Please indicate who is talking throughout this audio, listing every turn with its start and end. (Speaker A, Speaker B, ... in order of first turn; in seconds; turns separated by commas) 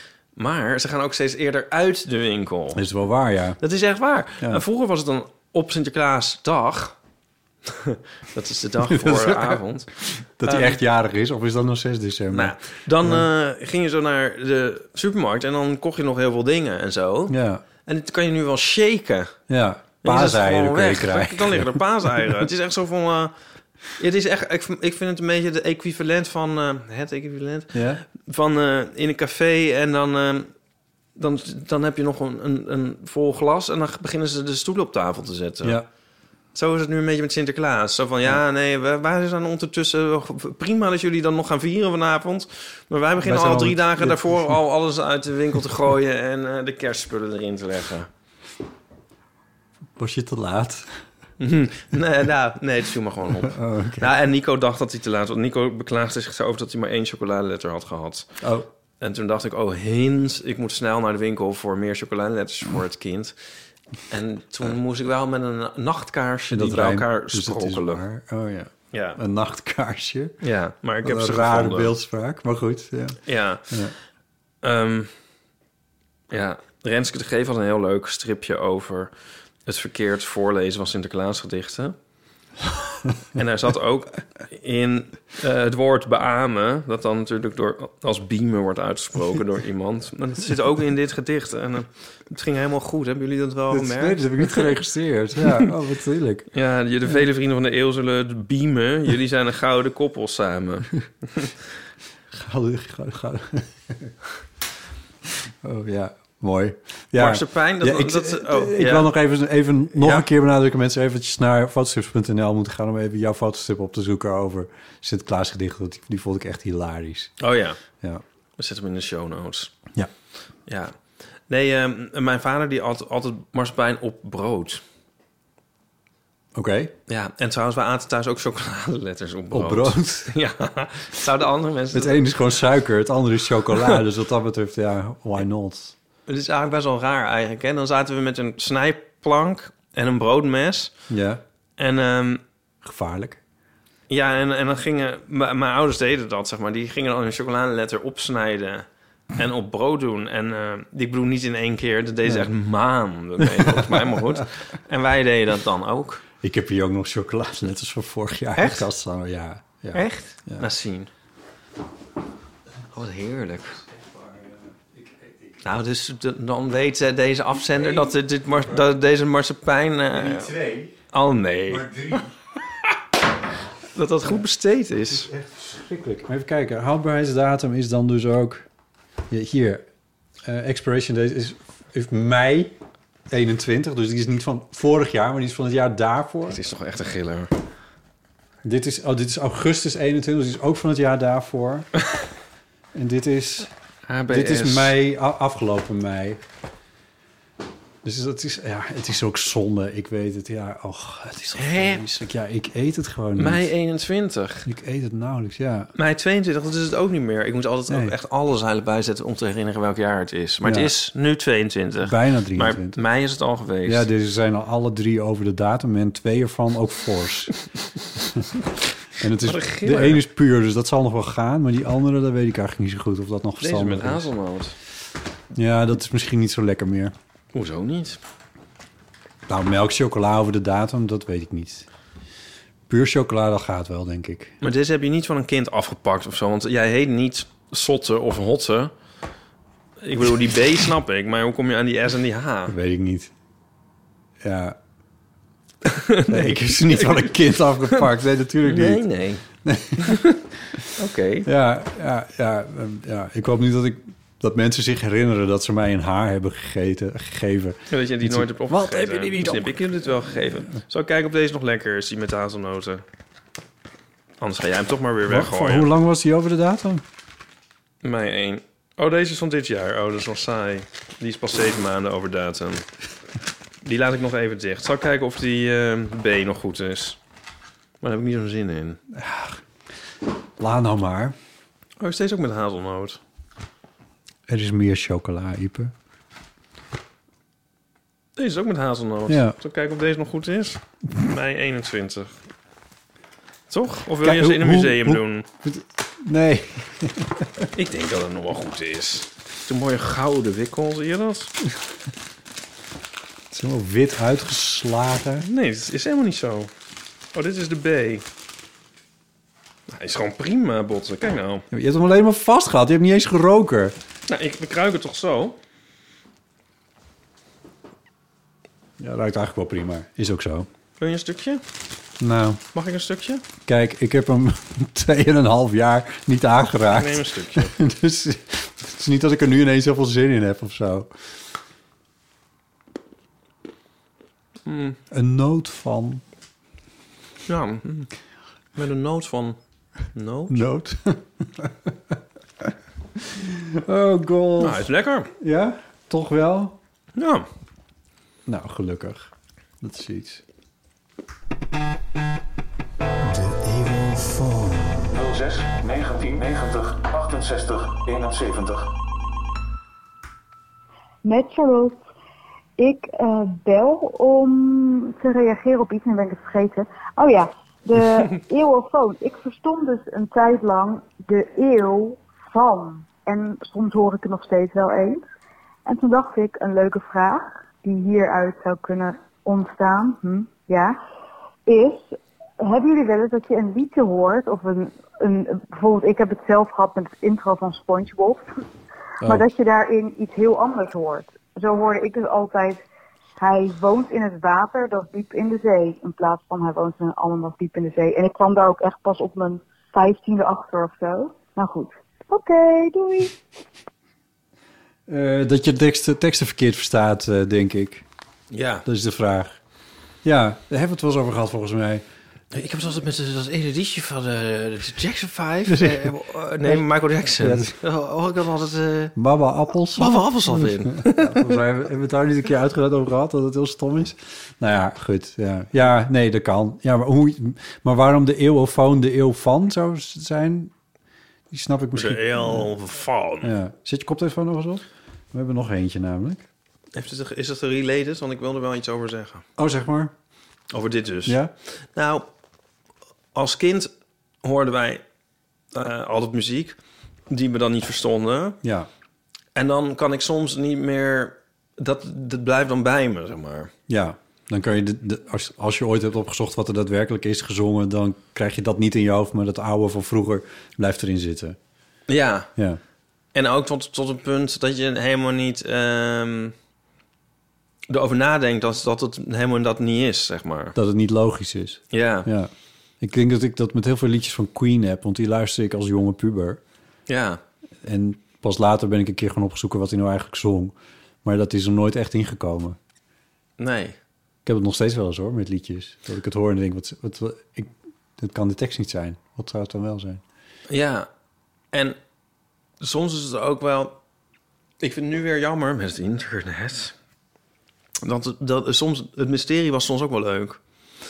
Speaker A: 0.4-2.9, Speaker B: 2.7-3.6, Speaker A: 3.6-7.0, Speaker A: 7.7-9.9, Speaker B: 8.8-13.3, Speaker A: 10.4-10.8, Speaker A: 12.3-19.3, Speaker B: 17.3-17.6, Speaker B: 19.5-21.8, Speaker A: 20.0-23.3, Speaker A: 24.0-30.5, Speaker B: 27.7-28.0, Speaker A: 31.2-35.8, Speaker A: 36.5-48.1, Speaker B: 43.2-44.5, Speaker B: 50.0-50.9, Speaker A: 51.4-58.3, Speaker B: 53.4-54.1, Speaker B: 58.4-58.7, Speaker A: 59.0-63.3, Speaker A: 64.1-68.0, Speaker B: 66.5-70.4, Speaker A: 68.9-69.2, Speaker A: 70.4-71.9, Speaker B: 71.0-73.2, Speaker A: 73.3-73.8, Speaker A: 74.6-75.1, Speaker A: 76.3-79.1, Speaker A: 79.7-82.0, Speaker A: 83.3-94.7, Speaker B: 93.7-96.5, Speaker A: 96.5-101.5, Speaker B: 102.3-104.1, Speaker B: 105.6-117.3, Speaker A: 107.2-109.1, Speaker A: 110.0-110.3, Speaker A: 117.4-117.8, Speaker A: 118.6-119.7, Speaker A: 120.7-121.0, Speaker A: 121.5-124.8, Speaker B: 126.5-126.9, Speaker A: 127.1-132.3, Speaker B: 129.5-130.3, Speaker B: 131.9-135.9, Speaker A: 136.3-140.9, Speaker B: 141.1-141.4, Speaker A: 141.8-142.4, Speaker B: 142.8-143.4, Speaker A: 144.1-156.2, Speaker B: 153.4-154.4, Speaker B: 156.4-160.7, Speaker A: 158.6-158.8, Speaker A: 159.9-161.1, Speaker A: 162.9-163.8, Speaker B: 164.2-165.6, Speaker A: 165.6-170.6, Speaker B: 170.1-170.9, Speaker A: 171.1-172.3, Speaker B: 171.7-172.3, Speaker A: 173.9-175.3, Speaker B: 175.1-178.7, Speaker B: 179.3-179.8, Speaker B: 180.4-182.8, Speaker B: 183.3-186.6, Speaker A: 186.5-187.5, Speaker B: 188.6-191.9, Speaker B: 192.9-193.7, Speaker A: 194.1-195.0, Speaker B: 194.3-196.4, Speaker B: 198.0-203.7, Speaker A: 201.6-202.2, Speaker A: 203.4-204.7, Speaker B: 204.7-205.9, Speaker A: 206.0-214.1, Speaker B: 207.9-208.1, Speaker B: 210.6-210.9, Speaker B: 212.0-213.0, Speaker B: 213.9-217.6, Speaker B: 219.2-224.3, Speaker A: 219.4-220.2, Speaker A: 223.6-224.7, Speaker B: 225.6-227.1, Speaker A: 227.5-228.2, Speaker B: 229.5-231.9, Speaker B: 232.9-234.6, Speaker A: 234.6-238.9, Speaker A: 240.0-242.8, Speaker B: 242.7-243.3, Speaker B: 244.4-244.8, Speaker A: 245.9-247.3, Speaker B: 246.3-249.0, Speaker A: 248.7-249.4, Speaker B: 249.7-250.2, Speaker A: 250.0-250.4, Speaker A: 251.0-251.5, Speaker B: 251.4-260.3, Speaker A: 257.9-263.0, Speaker A: 264.4-265.9, Speaker B: 265.3-267.0, Speaker A: 268.0-272.9, Speaker A: 273.8-277.2, Speaker A: 278.0-279.0, Speaker B: 279.1-279.6, Speaker B: 280.6-281.4, Speaker A: 282.0-283.2, Speaker B: 284.5-285.9, Speaker A: 288.4-292.3, Speaker B: 289.3-289.6, Speaker A: 293.7-295.4, Speaker B: 294.2-297.7, Speaker A: 297.8-301.5, Speaker B: 303.5-305.5, Speaker A: 305.4-306.7, Speaker A: 307.3-308.2, Speaker A: 309.9-311.6, Speaker B: 311.7-314.0, Speaker A: 314.3-315.6, Speaker B: 319.0-320.7, Speaker A: 321.0-321.6, Speaker B: 322.2-322.6, Speaker A: 322.7-323.4, Speaker B: 323.7-331.1, Speaker A: 326.9-327.8, Speaker A: 334.7-335.0, Speaker B: 335.1-336.2, Speaker A: 337.5-338.1, Speaker A: 338.8-339.6, Speaker A: 340.1-340.6, Speaker B: 340.5-341.9, Speaker B: 342.6-344.9, Speaker A: 344.6-345.3, Speaker B: 345.4-346.8, Speaker A: 347.2-347.4, Speaker B: 348.5-350.4, Speaker B: 353.2-355.2, Speaker B: 356.6-358.5, Speaker C: 361.2-362.0, Speaker C: 362.8-375.2, Speaker C: 375.9-381.0, Speaker C: 381.7-388.5, Speaker C: 389.2-392.8, Speaker C: 393.4-403.4, Speaker B: 405.1-408.1, Speaker A: 408.5-408.9, Speaker B: 408.9-409.6, Speaker B: 410.2-412.0, Speaker A: 412.5-419.1, Speaker B: 415.7-416.9, Speaker B: 417.4-417.7, Speaker B: 419.2-430.7, Speaker A: 419.9-421.6, Speaker B: 431.5-432.7, Speaker A: 431.9-433.5, Speaker B: 433.4-436.4, Speaker A: 436.9-439.4, Speaker B: 439.6-440.1, Speaker A: 440.7-441.4, Speaker B: 441.3-441.5, Speaker A: 441.9-442.2, Speaker A: 443.4-443.9, Speaker A: 444.4-445.0, Speaker A: 445.7-446.8, Speaker A: 447.3-448.6, Speaker B: 448.6-448.9, Speaker A: 449.6-453.7, Speaker B: 453.9-461.6, Speaker A: 462.1-462.5, Speaker A: 463.4-466.5, Speaker A: 467.9-470.8, Speaker B: 470.8-476.6, Speaker A: 471.9-472.3, Speaker A: 477.1-477.4, Speaker B: 477.8-482.8, Speaker A: 483.6-484.0, Speaker B: 484.4-490.2, Speaker A: 490.7-491.1, Speaker A: 491.7-492.0, Speaker A: 492.8-494.0, Speaker A: 494.8-496.9, Speaker A: 498.0-500.6